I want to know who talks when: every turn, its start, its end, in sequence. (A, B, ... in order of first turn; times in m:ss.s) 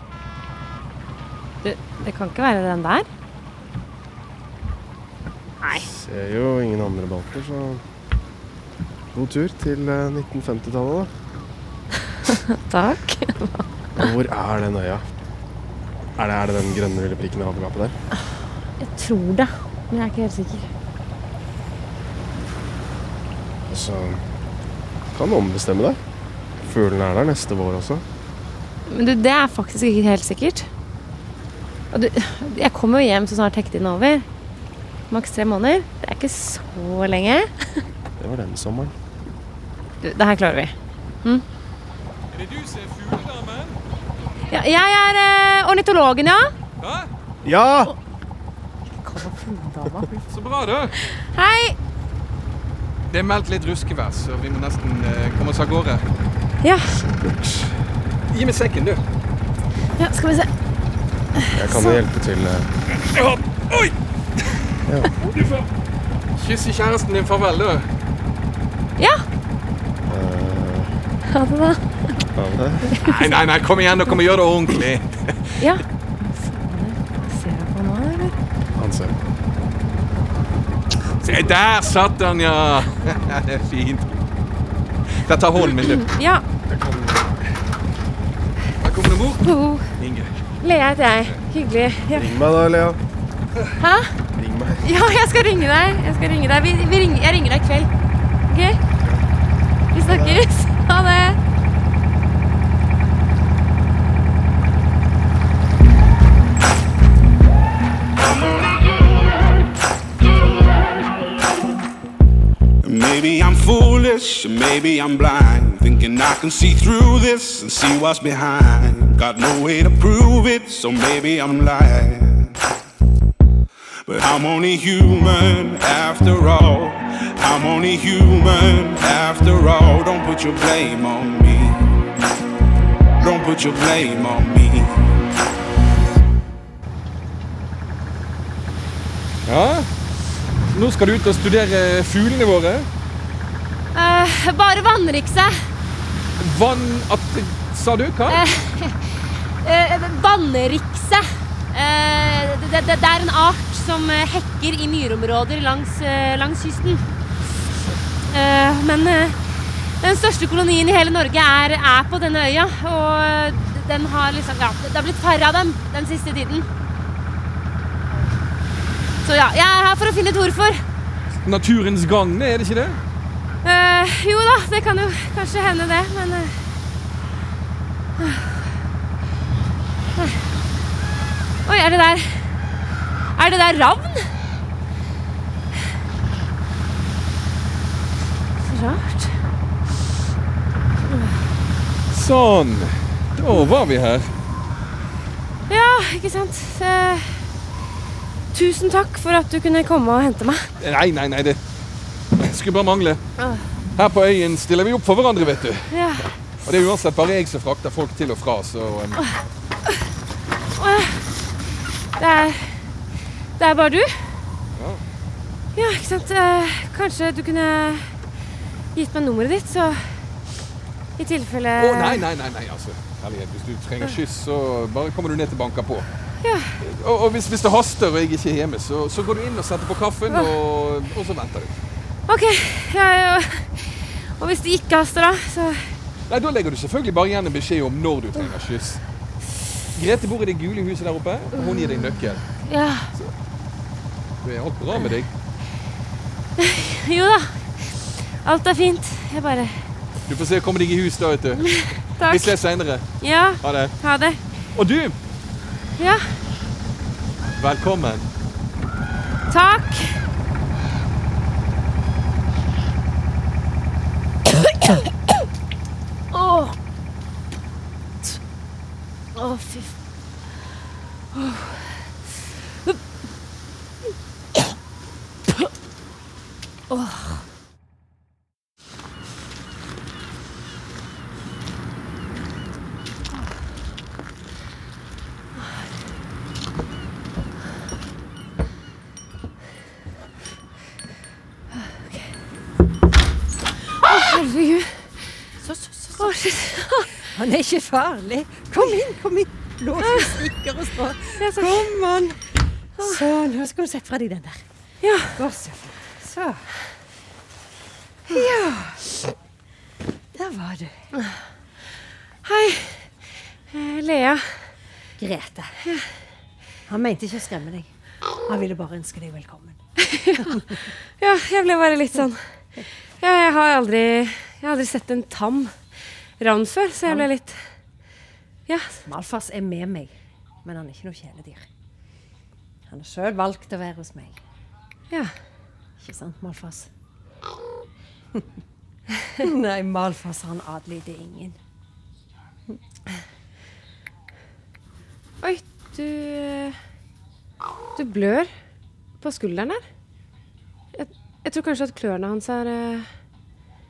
0:01.6-0:03.1 A
0:05.6-0:05.9 A
0:05.9-0:07.8 B
0:09.1-0:11.1 B
0:12.3-0:13.7 A
0:14.0-0:15.1 B
0:16.2-0:18.0 B
0:18.8-0:20.7 A
0:23.7-0:24.2 B
0:25.1-0:26.0 B
0:26.6-0:28.0 B
0:28.9-0:30.7 A
0:31.9-0:34.3 A
0:35.1-0:37.5 A
0:38.2-0:38.9 B
0:40.0-0:41.4 A
0:42.3-0:43.8 C
0:44.5-0:46.5 A
0:46.8-0:47.1 C
0:47.4-0:47.9 B
0:49.0-0:50.2 D
0:50.3-0:50.9 C
0:51.1-0:51.8 A
0:53.1-0:56.0 C
0:56.6-0:57.0 A
0:57.2-0:57.6 B
0:58.3-0:59.0 C
1:00.0-1:00.5 A
1:01.4-1:02.0 A
1:01.5-1:02.7 B
1:02.9-1:03.9 C
1:04.9-1:05.1 B
1:05.3-1:05.7 C
1:06.4-1:07.9 C
1:09.0-1:09.3 A
1:10.1-1:10.9 B
1:11.3-1:12.2 A
1:12.4-1:12.9 B
1:12.9-1:13.2 A
1:13.0-1:15.5 C
1:15.6-1:18.4 A
1:18.8-1:19.2 B
1:21.2-1:24.1 C
1:25.2-1:26.1 C
1:25.9-1:26.4 A
1:26.7-1:27.3 C
1:28.8-1:29.5 C
1:29.4-1:29.9 A
1:30.0-1:30.3 C
1:30.6-1:32.4 A
1:32.1-1:33.0 B
1:33.8-1:34.2 A
1:34.4-1:34.9 B
1:34.8-1:37.9 A
1:38.5-1:38.8 A
1:39.9-1:41.4 A
1:40.0-1:40.4 B
1:52.8-2:02.6 E
2:04.1-2:11.9 E
2:13.2-2:15.0 E
2:19.5-2:19.9 C
2:20.7-2:22.9 C
2:23.9-2:25.7 A
2:26.4-2:28.4 C
2:28.3-2:37.0 A
2:38.3-2:46.7 A
2:49.2-2:50.8 A
2:51.4-2:53.0 C
2:53.6-2:56.7 A
2:58.2-2:58.7 A
3:00.2-3:00.4 A
3:01.7-3:02.5 A
3:03.4-3:04.3 A
3:08.6-3:09.4 A
3:11.0-3:11.4 A
3:12.1-3:14.3 C
3:15.7-3:17.5 A
3:18.5-3:20.7 A
3:20.8-3:21.6 C
3:22.4-3:23.2 C
3:23.4-3:23.6 A
3:24.0-3:25.9 C
3:25.9-3:26.3 A
3:26.6-3:29.2 C
3:30.8-3:31.3 A
3:32.2-3:32.9 A
3:33.6-3:34.4 A
3:34.8-3:35.0 C
3:35.8-3:38.2 A
3:39.0-3:40.3 A
3:41.2-3:42.2 A
3:41.8-3:46.1 C
3:46.4-3:46.8 A
3:46.8-3:51.7 C
3:52.3-3:56.0 A
3:56.3-3:59.0 C
3:59.9-4:02.5 C
4:01.5-4:03.1 A
4:04.4-4:05.3 C
4:06.6-4:09.9 A
4:10.3-4:13.1 C
4:11.7-4:12.6 A
4:13.2-4:14.4 A
4:13.6-4:14.0 C
4:14.7-4:15.2 C
4:16.0-4:16.3 A
4:17.6-4:18.2 C
4:19.5-4:20.3 A
4:26.3-4:26.8 A
4:29.4-4:29.9 A
4:31.3-4:32.1 A
4:36.9-4:37.4 A
4:51.7-4:52.4 A
4:54.0-4:55.2 A
4:55.6-4:56.5 D
4:56.2-4:57.1 A
4:57.2-5:02.4 D
5:00.0-5:00.4 A
5:01.4-5:02.0 A
5:03.0-5:04.6 D
5:03.0-5:03.2 A
5:05.0-5:05.4 A
5:05.4-5:06.7 D
5:08.3-5:09.1 D
5:08.3-5:08.8 A
5:10.3-5:11.0 D
5:12.4-5:13.1 A
5:13.7-5:14.7 A
5:15.2-5:15.8 D
5:15.8-5:16.1 A
5:16.9-5:17.9 D
5:18.4-5:19.8 D
5:20.0-5:20.6 A
5:20.4-5:20.8 D
5:21.2-5:22.4 A
5:23.2-5:25.7 A
5:26.4-5:27.6 A
5:28.7-5:29.0 A
5:29.1-5:30.1 D
5:30.6-5:31.6 D
5:32.9-5:34.4 D
5:36.0-5:36.9 D
5:39.4-5:41.6 D
5:45.4-5:46.8 A
5:48.0-5:48.5 A
5:49.2-5:49.8 A
5:51.0-5:53.1 A